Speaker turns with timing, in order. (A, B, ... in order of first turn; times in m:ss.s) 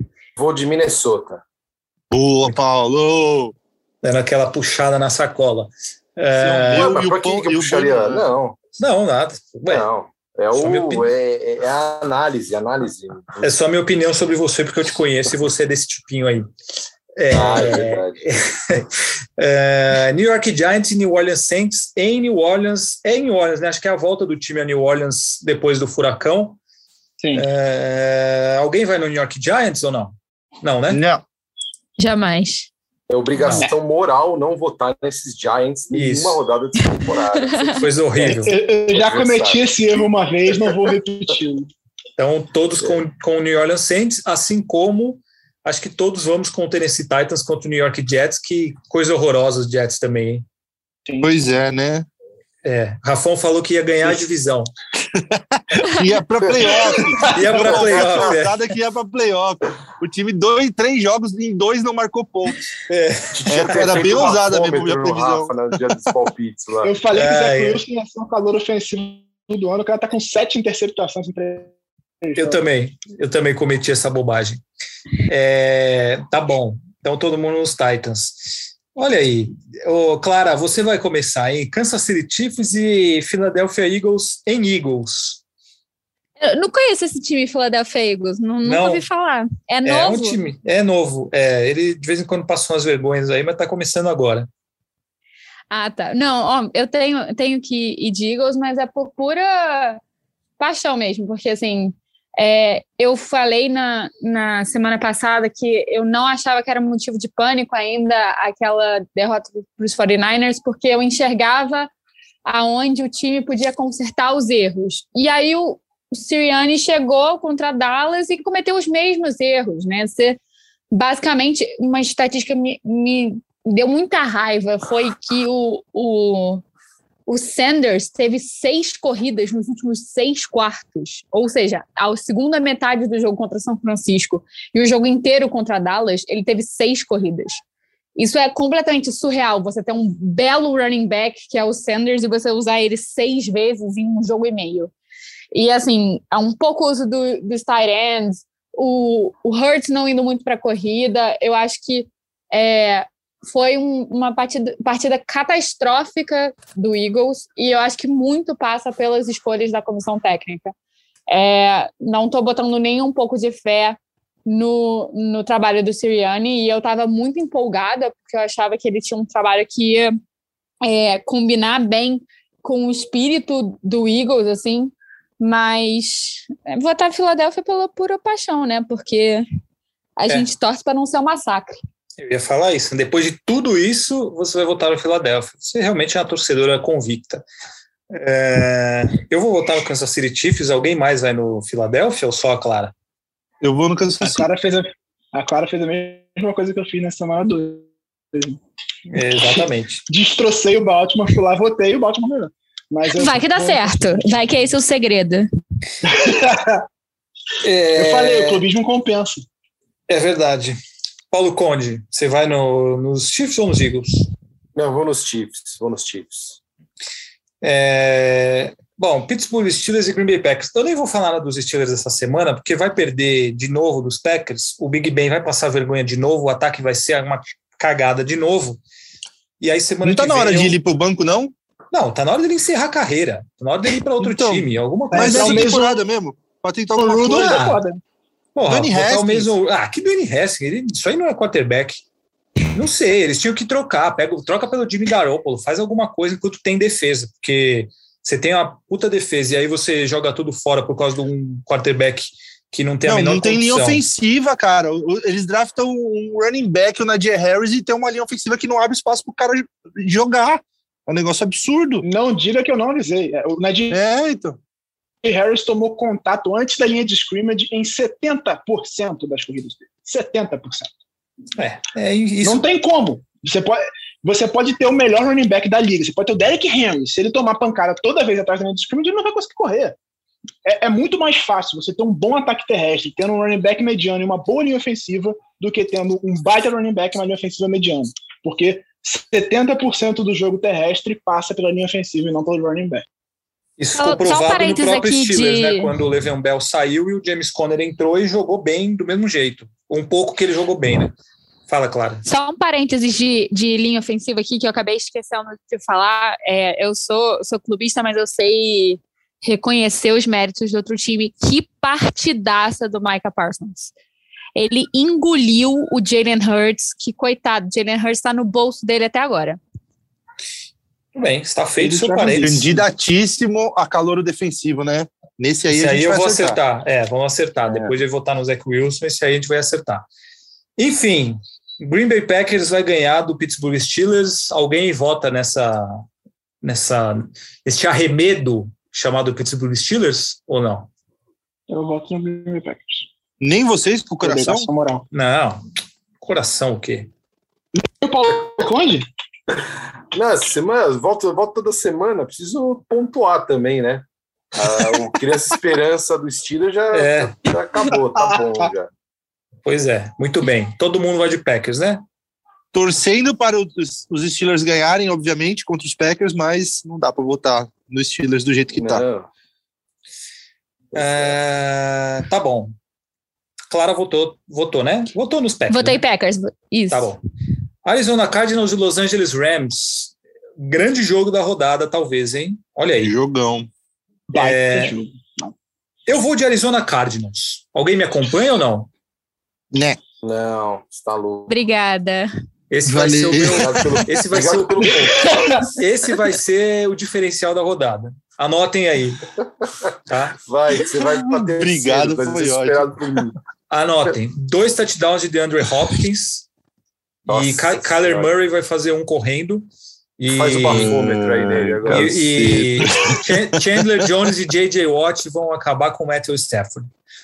0:00.4-0:01.4 A
0:02.1-0:03.5 B
0:04.0-0:06.9 C
0:06.4-0:08.3 B
0:06.7-0:08.6 A
0:08.8-0:09.9 C
0:09.7-0:13.5 A
0:10.5-0:11.1 C
0:13.4-0:16.5 C
0:17.2-0:26.6 C
0:17.3-0:18.3 A
0:27.2-0:27.4 D
0:27.3-0:31.0 C
0:30.9-0:31.2 B
0:32.0-0:32.7 E
0:33.1-0:40.0 A
0:33.4-0:33.7 C
0:35.9-0:36.4 C
0:36.9-0:37.8 E
0:37.8-0:38.5 C
0:38.3-0:41.7 D
0:42.2-0:50.4 C
0:51.1-0:51.3 D
0:51.2-0:52.1 B
0:52.6-0:54.7 C
0:55.1-1:02.7 B
0:57.3-0:58.6 C
0:57.7-0:58.1 A
1:02.9-1:04.3 C
1:03.3-1:06.9 A
1:03.5-1:05.5 B
1:06.8-1:12.6 D
1:07.1-1:07.8 C
1:12.4-1:14.6 C
1:15.3-1:25.4 C
1:26.4-1:30.4 E
1:28.6-1:29.0 C
1:29.8-1:34.5 C
1:35.7-1:40.0 E
1:40.6-1:51.9 E
1:52.4-2:00.4 E
2:00.9-2:06.6 E
2:07.3-2:17.6 E
2:18.2-2:24.9 E
2:25.5-2:40.7 E
2:41.3-2:50.1 E
2:50.8-2:59.4 E
3:00.2-3:01.8 E
3:02.2-3:07.4 C
3:08.1-3:12.9 C
3:13.6-3:14.4 B
3:14.2-3:18.6 D
3:19.1-3:20.0 C
3:19.2-3:23.9 D
3:23.1-3:25.5 E
3:26.0-3:26.8 D
3:27.6-3:28.6 C
3:28.0-3:29.4 D
3:30.1-3:30.8 C
3:31.3-3:34.3 C
3:34.8-3:36.6 A
3:37.6-3:48.8 C
3:49.6-3:50.8 C
3:50.0-3:51.5 B
3:51.9-3:55.8 C
3:54.2-3:57.7 B
3:55.1-3:56.0 D
3:57.0-3:58.0 D
3:57.4-3:57.8 C
3:58.6-4:02.0 C
3:58.7-3:59.5 B
4:02.7-4:14.0 C
4:13.0-4:22.0 B
4:22.0-4:24.0 D
4:23.9-4:24.6 B
4:25.2-4:30.9 D
4:31.6-4:32.6 C
4:32.4-4:40.0 D
4:40.6-4:53.0 D
4:53.8-5:01.2 C
4:54.0-4:55.9 E
5:01.7-5:02.2 C
5:02.3-5:13.9 E
5:14.6-5:19.6 E
5:21.1-5:22.7 C
5:21.8-5:22.8 D
5:22.4-5:26.6 B
5:25.7-5:30.0 C
5:30.8-5:36.0 C
5:36.6-5:40.9 C
5:41.7-5:43.1 D
5:43.4-5:44.7 B
5:44.2-5:45.0 D
5:45.1-5:45.6 C
5:46.2-5:47.1 C
5:47.8-5:49.1 D
5:50.1-5:58.9 A
5:56.9-5:57.3 C
5:58.2-5:58.4 D
5:59.7-6:02.0 C
6:02.7-6:09.0 B
6:08.8-6:09.3 A
6:10.9-6:12.7 C
6:11.0-6:11.4 A
6:13.7-6:16.0 C
6:15.7-6:17.1 E
6:16.9-6:17.2 C
6:17.8-6:23.1 C
6:23.0-6:23.7 B
6:24.3-6:25.6 D
6:24.3-6:24.9 C
6:26.1-6:28.9 C
6:29.7-6:30.0 B
6:30.2-6:31.6 A
6:31.5-6:32.3 E
6:32.7-6:39.2 C
6:32.9-6:34.0 B
6:33.3-6:35.7 A
6:35.3-6:35.7 D
6:40.1-6:40.4 C
6:40.4-6:43.4 A
6:40.9-6:43.2 B
6:43.7-6:46.5 C
6:47.3-6:48.3 A
6:47.3-6:49.7 C
6:50.2-6:51.0 C
6:50.3-6:52.3 A
6:50.6-6:54.0 B
6:51.9-6:56.9 C